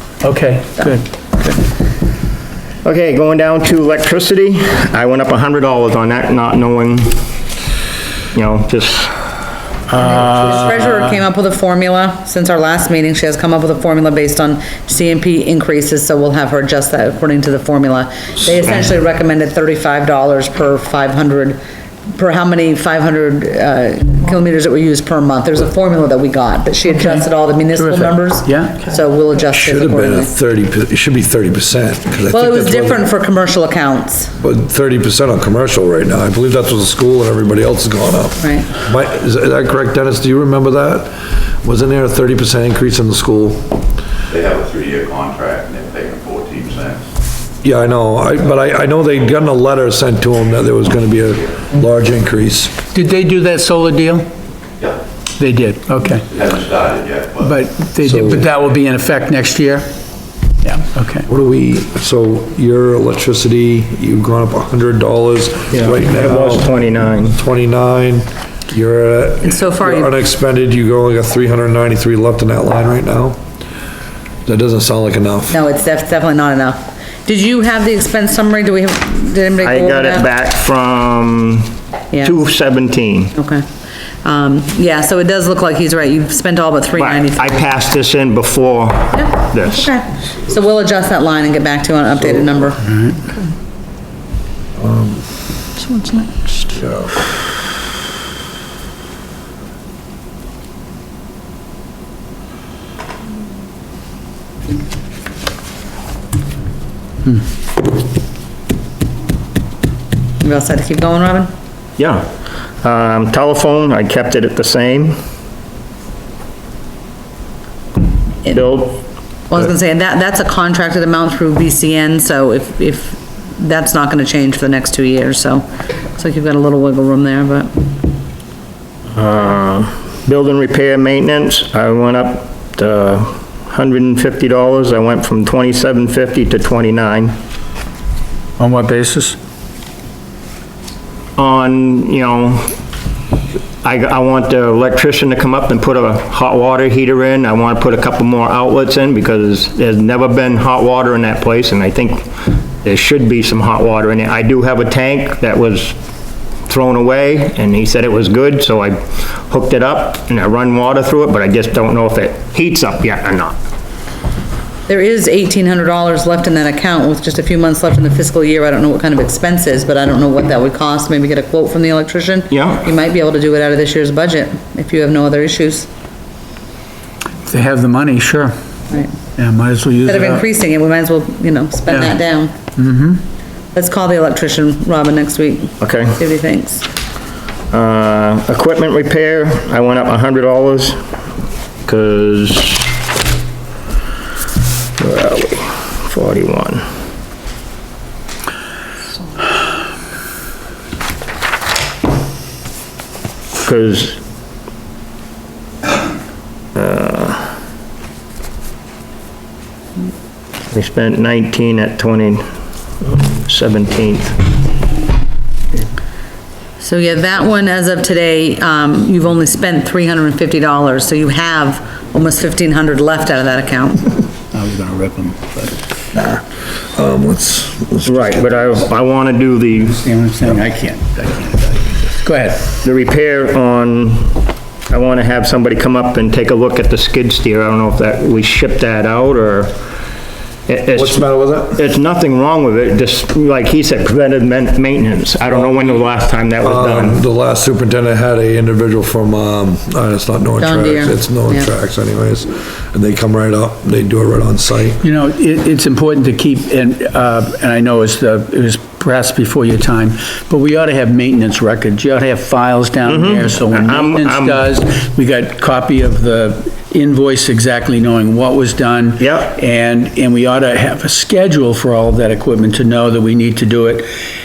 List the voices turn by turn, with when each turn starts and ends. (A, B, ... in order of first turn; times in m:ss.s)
0:00.2-0:01.6 A
0:02.8-0:07.2 B
0:08.3-0:09.1 B
0:09.9-0:11.1 A
0:10.2-0:21.6 C
0:22.1-0:30.3 C
0:26.9-0:27.2 A
0:27.8-0:28.8 A
0:29.5-0:33.0 D
0:32.3-0:34.3 C
0:34.4-0:43.7 D
0:38.4-0:38.7 C
0:44.3-0:47.0 E
0:47.6-0:52.8 D
0:52.9-0:54.3 A
0:55.4-0:56.3 A
0:56.4-0:57.4 E
0:57.4-0:59.9 A
0:58.0-0:58.5 D
1:00.6-1:01.3 A
1:01.3-1:13.4 D
1:05.7-1:07.4 B
1:09.4-1:10.1 C
1:14.4-1:15.6 D
1:15.5-1:20.3 C
1:19.6-1:23.3 B
1:22.1-1:22.4 C
1:23.3-1:23.6 C
1:24.2-1:27.7 C
1:27.0-1:29.9 B
1:29.1-1:32.8 C
1:32.8-1:33.2 A
1:34.8-1:35.2 D
1:35.8-1:36.5 C
1:36.7-1:37.1 D
1:50.4-1:51.5 C
1:52.0-1:52.2 B
1:52.8-1:55.2 B
1:58.5-1:59.0 B
1:59.5-2:07.7 C
2:09.1-2:17.4 B
2:18.6-2:19.4 A
2:21.4-2:22.7 B
2:23.8-2:36.0 B
2:36.7-2:43.6 B
2:44.9-2:55.9 C
2:52.5-2:52.8 B
2:57.4-2:58.5 A
2:59.4-3:00.4 A
3:00.0-3:02.5 C
3:01.9-3:02.1 A
3:02.8-3:03.2 A
3:03.7-3:06.9 C
3:05.8-3:06.2 B
3:07.7-3:11.0 B
3:11.8-3:12.9 B
3:15.0-3:16.8 B
3:23.6-3:24.2 B
3:26.7-3:27.5 B
3:30.7-3:32.4 B
3:33.0-3:34.4 B
3:36.8-3:44.2 C
3:44.5-3:45.7 A
3:46.1-3:48.4 D
3:48.0-3:49.9 B
3:49.8-3:52.8 A
3:52.8-3:59.8 B
4:00.7-4:07.2 B
4:00.9-4:01.8 D
4:05.5-4:05.9 D
4:06.6-4:15.0 D
4:10.6-4:11.7 C
4:15.0-4:34.1 A
4:23.0-4:24.6 B
4:29.2-4:29.5 B